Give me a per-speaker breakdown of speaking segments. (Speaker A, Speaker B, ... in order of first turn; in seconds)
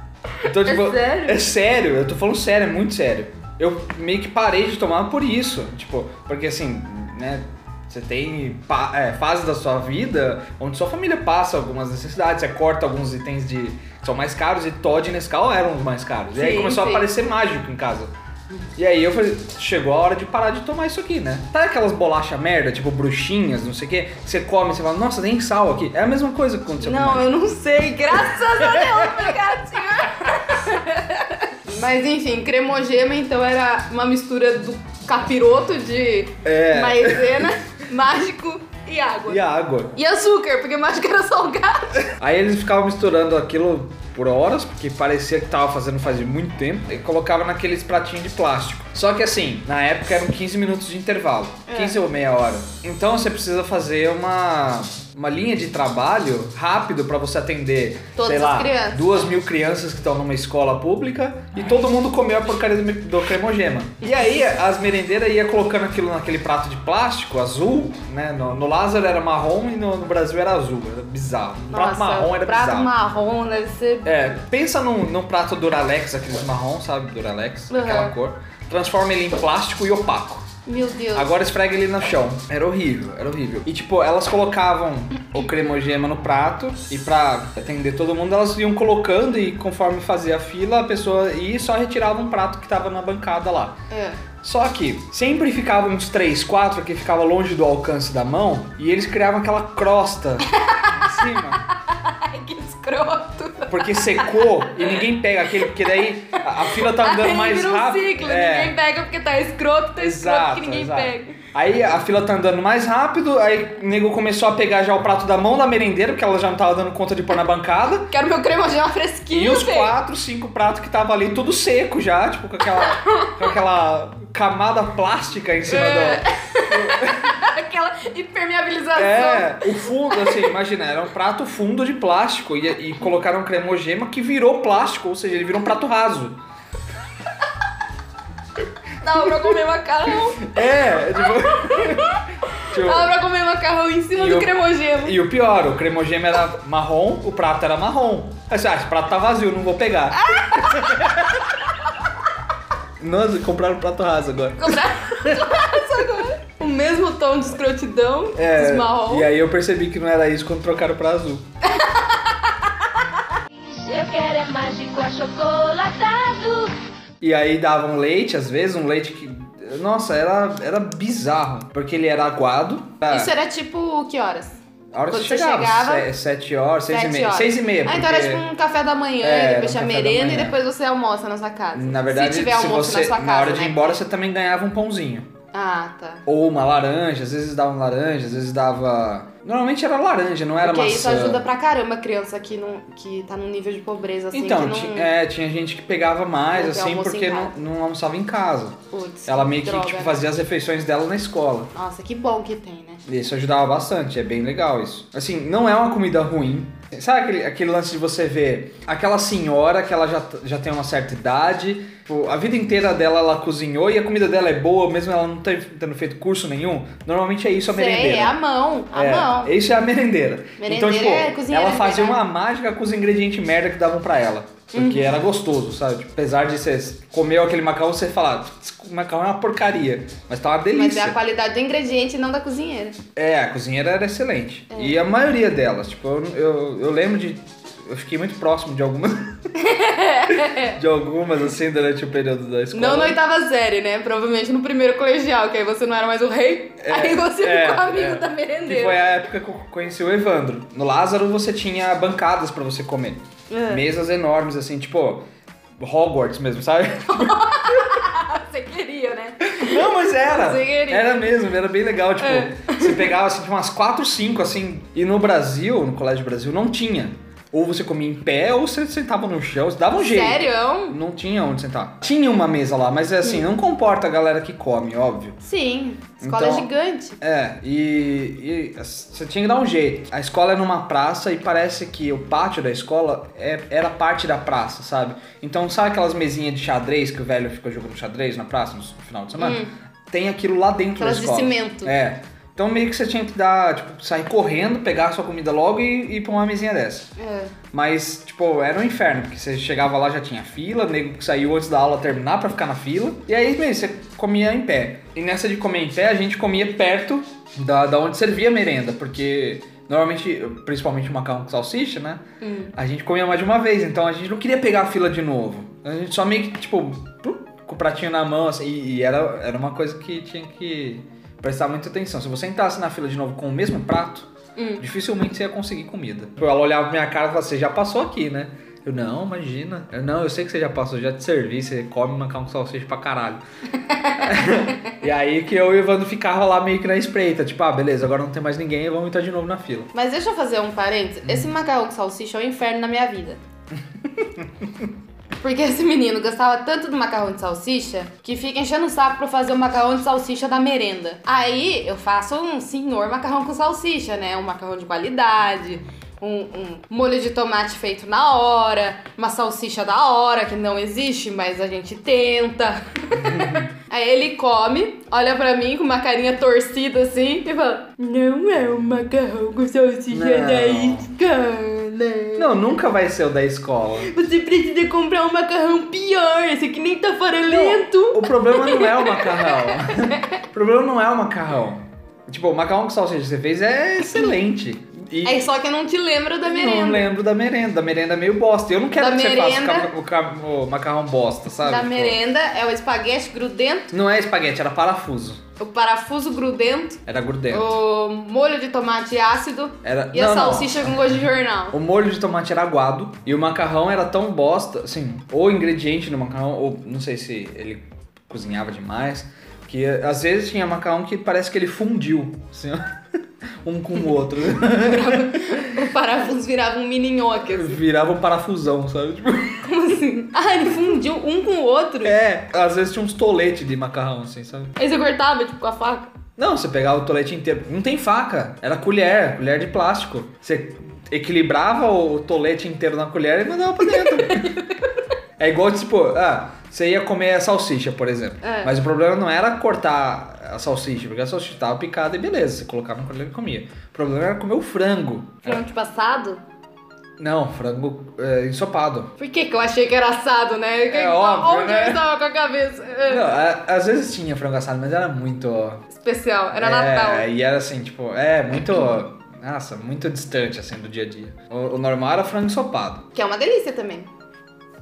Speaker A: 0.4-18.1, 18.8-27.2, 28.3-29.2, 36.4-37.5, 39.3-40.0, 42.2-72.9, 74.0-80.5, 81.1-93.8, 94.4-101.6, 103.7-108.8, 110.0-118.1, 119.3-127.3, 128.9-136.4, 140.4-143.1, 144.2-151.4, 153.0-154.8, 158.3-161.4, 167.2-173.3, 174.9-178.4, 179.2-180.6, 181.7-185.3, 186.2-191.4, 194.3-201.7, 203.1-218.4, 218.9-231.2, 233.2-239.3, 240.4-243.2, 246.8-255.2, 255.8-257.4, 259.5-275.4, 276.2-276.7, 277.2-297.1, 297.7-312.2, 312.7-333.4, 334.2-339.9, 341.2-341.5, 344.0-344.8, 363.1-363.7, 370.1-371.1, 372.4-374.1, 377.5-385.5, 386.4-392.1, 393.9-395.4, 397.1-397.8, 399.8-401.2, 401.7-412.8, 413.6-415.4, 417.5-419.6, 422.0-424.7, 426.4-434.6, 435.4-445.6, 447.2-449.1, 450.9-452.0, 453.1-455.8, 456.5-463.1
Speaker B: 0.6-1.4, 16.3-17.1, 26.8-39.4, 39.9-41.9, 51.7-52.0, 58.1-59.1, 71.7-74.1, 77.7-78.1, 80.7-81.4, 93.9-94.2, 100.5-101.1, 101.7-105.0, 105.5-106.1, 106.7-111.3, 118.1-119.9, 122.9-123.3, 125.7-130.5, 139.0-140.7, 141.5-142.2, 142.7-145.2, 150.2-151.0, 154.6-159.3, 173.1-176.1, 176.9-184.0, 185.5-186.2, 190.6-195.1, 196.5-197.6, 198.9-200.2, 201.7-203.0, 217.7-219.5, 220.6-222.2, 224.7-225.2, 230.7-233.0, 239.6-240.7, 242.7-249.0, 253.5-253.8, 257.1-261.3, 262.2-263.1, 270.0-271.0, 275.4-277.2, 289.4-289.7, 291.0-291.9, 297.2-297.5, 312.4-312.7, 324.6-324.8, 333.9-334.7, 339.9-343.4, 345.4-372.7, 374.0-380.2, 385.2-387.1, 389.0-389.9, 391.6-393.9, 395.6-397.0, 397.5-401.8, 414.7-417.8, 419.6-422.1, 424.8-426.1, 433.9-434.6, 438.4-438.8, 445.4-446.4, 449.2-453.3, 455.9-457.3, 463.1-464.1
Speaker C: 163.6-166.8